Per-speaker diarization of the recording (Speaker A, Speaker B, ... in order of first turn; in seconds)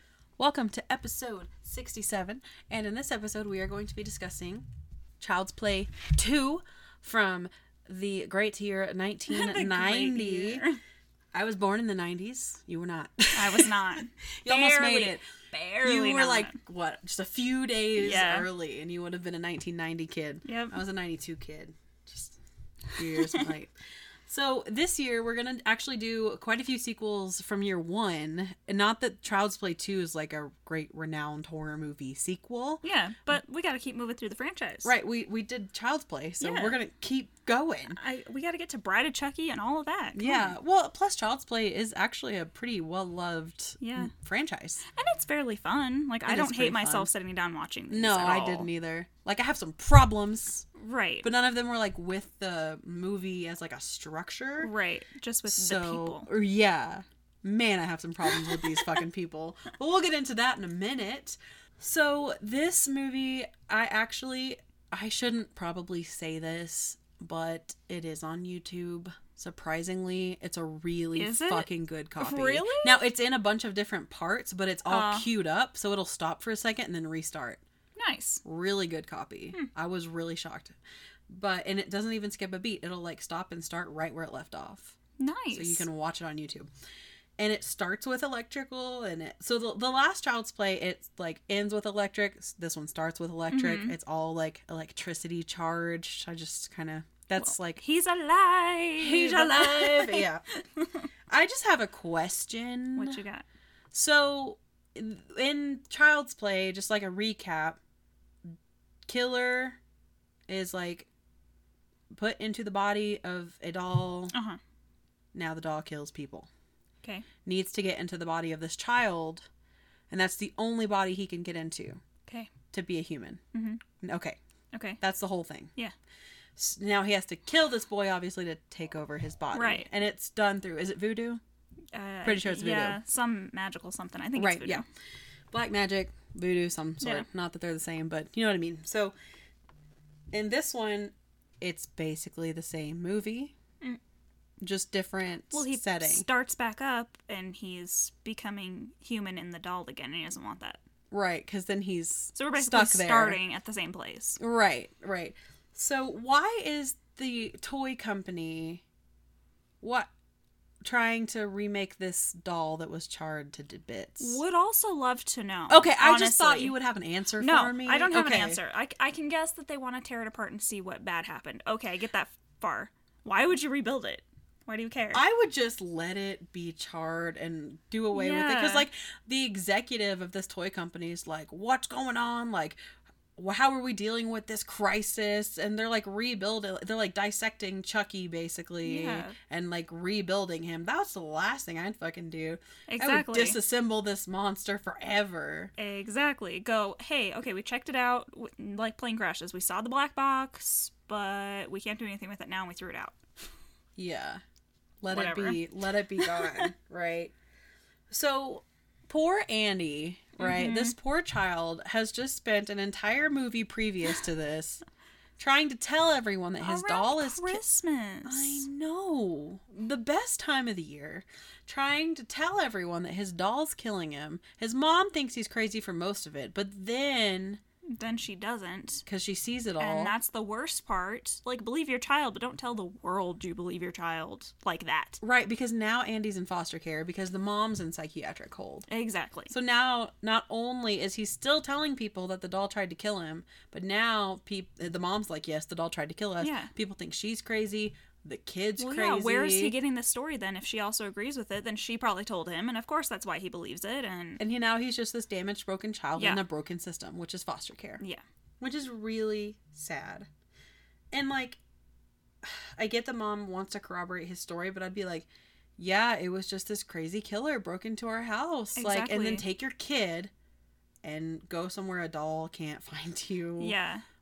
Speaker A: 0.4-4.7, 5.2-10.6, 11.3-15.3, 15.8-22.4, 22.9-23.7, 24.3-32.9, 34.8-38.0, 40.2-44.8, 46.3-47.1, 47.9-50.7, 51.2-54.7, 55.5-77.6, 78.5-80.8, 81.3-85.0, 85.5-86.7, 87.4-97.8, 99.0-100.4, 101.3-103.2, 103.9-107.8, 109.1-109.8, 110.5-111.1, 112.1-114.3, 115.3-116.5, 117.4-119.5, 120.1-122.0, 122.7-123.4, 124.0-124.4, 125.0-125.7, 126.6-131.4, 132.2-133.0, 134.4-134.8, 135.5-139.1, 140.3-143.6, 144.6-146.3, 151.1-153.4, 154.4-158.8, 159.8-160.1, 160.8-164.4, 165.7-168.6, 175.1-182.8, 183.4-195.7, 204.0-204.4, 205.0-207.3, 208.1-214.8, 215.4-217.6, 218.2-227.6, 229.1-230.2, 235.2-238.9, 239.5-249.7, 254.4-258.0, 258.6-260.3, 261.1-261.6, 262.4-270.3, 271.0-273.8
Speaker B: 9.3-10.8, 13.3-16.6, 18.0-18.5, 20.4-20.8, 23.2-23.5, 32.8-34.9, 36.4-36.8, 38.0-40.6, 43.8-44.1, 44.9-48.7, 50.8-51.3, 54.6-56.3, 58.3-58.9, 71.2-71.7, 72.2-73.0, 74.9-75.3, 78.0-78.4, 85.2-85.9, 93.5-94.0, 97.4-101.1, 103.0-103.5, 114.3-114.6, 123.5-123.8, 124.7-125.0, 129.5-129.9, 131.9-134.8, 137.0-137.3, 145.5-150.8, 152.3-154.4, 164.2-166.8, 167.4-175.2, 178.1-178.9, 188.8-189.4, 192.9-193.6, 195.8-203.2, 205.1-205.6, 206.2-206.7, 210.4-210.9, 216.6-218.7, 227.9-229.0, 229.8-235.2, 238.9-239.5, 246.4-246.7, 248.8-254.4, 268.8-269.4, 273.6-274.1